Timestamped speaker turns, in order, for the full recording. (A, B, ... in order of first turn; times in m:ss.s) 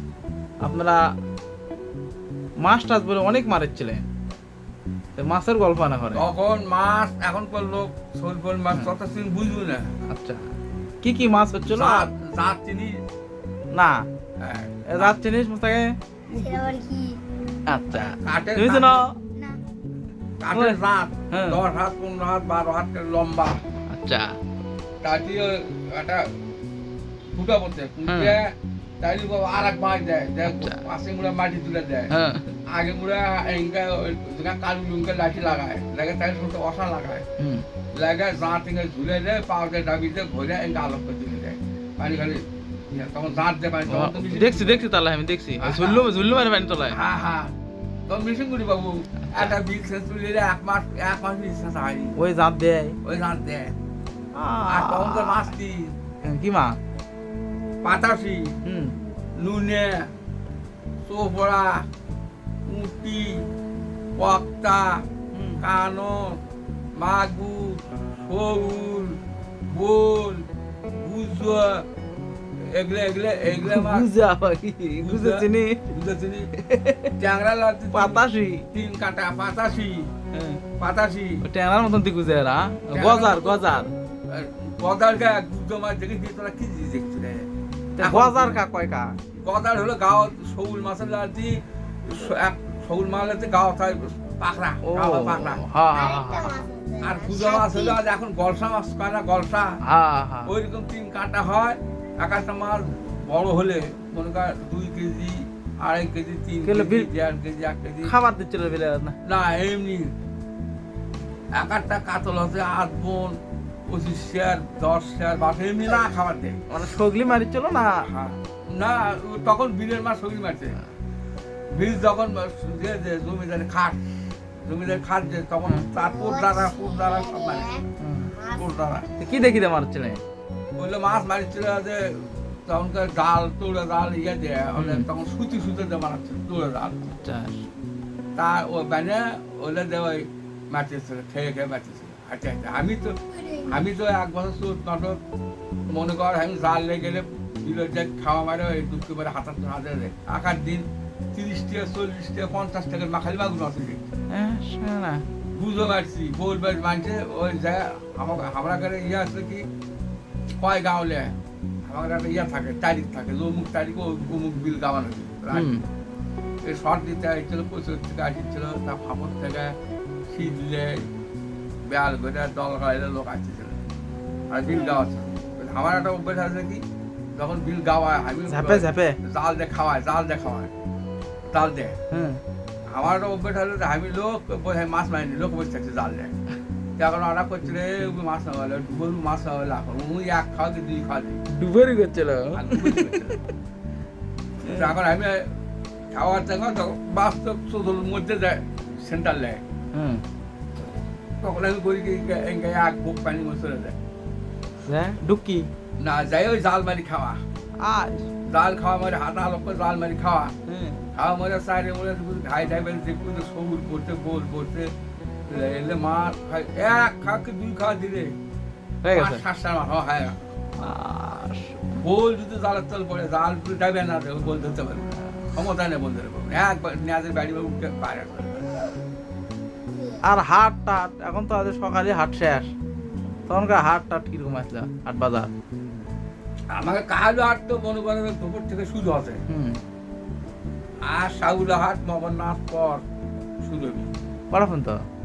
0:00.6-0:01.0 A
0:02.6-0:04.0 A
0:05.2-0:06.2 A
0:06.1-0:09.9 B
0:10.1-0:10.5 A
0:11.0-0:12.1 A
0:11.7-0:13.0 B
0:13.7-0:14.0 A
0:14.4-0:15.2 B
0:14.9-0:15.9 A
0:16.3-0:17.2 C
0:16.3-0:16.7 B
0:17.7-0:19.1 A
0:17.9-0:19.0 B
0:20.4-0:23.6 B
0:20.5-0:20.8 A
0:21.3-0:21.6 A
0:23.9-0:24.4 A
0:25.0-0:26.2 B
0:27.3-0:32.1 B
0:28.1-0:28.4 A
0:30.4-0:30.8 A
0:32.1-0:32.6 A
0:32.7-0:37.2 B
0:37.4-0:37.6 A
0:37.9-0:44.8 B
0:43.9-0:47.0 A
0:45.6-0:46.1 B
0:46.9-0:47.5 B
0:48.1-0:52.1 B
0:49.3-0:49.5 A
0:52.2-0:53.0 A
0:53.0-0:53.7 B
0:54.3-0:55.5 A
0:54.7-0:55.9 B
0:56.2-0:56.8 A
0:57.8-0:58.5 B
0:58.6-0:58.9 A
0:59.4-1:00.1 B
1:01.0-1:01.9 B
1:02.7-1:03.4 B
1:04.2-1:05.0 B
1:05.3-1:05.6 A
1:05.6-1:06.4 B
1:07.0-1:09.2 B
1:09.7-1:11.8 B
1:12.6-1:14.1 B
1:13.6-1:15.8 A
1:15.0-1:16.5 B
1:16.6-1:17.1 A
1:17.2-1:20.1 B
1:17.9-1:18.6 A
1:20.3-1:20.6 A
1:20.8-1:21.4 B
1:21.4-1:23.9 A
1:22.9-1:27.5 B
1:28.0-1:29.2 A
1:28.0-1:28.6 B
1:29.4-1:35.6 B
1:34.8-1:36.6 A
1:35.9-1:38.0 C
1:37.0-1:39.7 B
1:39.8-1:40.5 A
1:40.4-1:48.1 B
1:46.6-1:47.1 A
1:48.0-1:49.1 A
1:49.2-1:50.1 B
1:51.6-1:53.4 B
1:53.9-1:56.6 B
1:56.7-1:58.0 A
1:58.0-2:00.8 B
2:01.7-2:07.8 B
2:05.9-2:08.7 C
2:08.0-2:08.3 A
2:08.6-2:09.1 B
2:09.2-2:10.2 A
2:10.8-2:17.1 B
2:14.8-2:15.1 A
2:17.2-2:17.6 A
2:18.4-2:25.2 B
2:23.4-2:23.7 C
2:25.9-2:34.1 B
2:34.3-2:35.2 A
2:35.5-2:39.6 B
2:40.6-2:45.7 B
2:45.5-2:45.8 A
2:46.6-2:49.8 B
2:50.3-2:51.0 B
2:51.9-2:53.8 B
2:54.5-2:56.8 B
2:57.4-3:00.7 B
2:58.5-2:59.2 A
3:01.5-3:02.0 B
3:02.1-3:02.4 A
3:02.9-3:06.3 B
3:07.0-3:11.4 B
3:11.6-3:13.2 A
3:12.5-3:13.4 B
3:14.6-3:14.9 A
3:14.6-3:15.5 B
3:16.1-3:19.6 B
3:19.9-3:20.2 A
3:21.4-3:24.0 B
3:24.8-3:25.7 A
3:26.0-3:27.4 B
3:27.8-3:28.3 A
3:28.5-3:30.5 B
3:30.7-3:31.0 A
3:31.1-3:34.9 B
3:35.5-3:38.4 B
3:39.0-3:39.4 A
3:39.1-3:40.4 B
3:40.8-3:42.0 A
3:42.0-3:48.8 B
3:49.9-3:50.2 C
3:50.2-3:52.7 A
3:53.5-3:55.5 A
3:56.7-3:59.4 B
3:59.5-3:59.8 A
4:01.1-4:03.0 B
4:03.6-4:04.1 B
4:04.5-4:05.0 A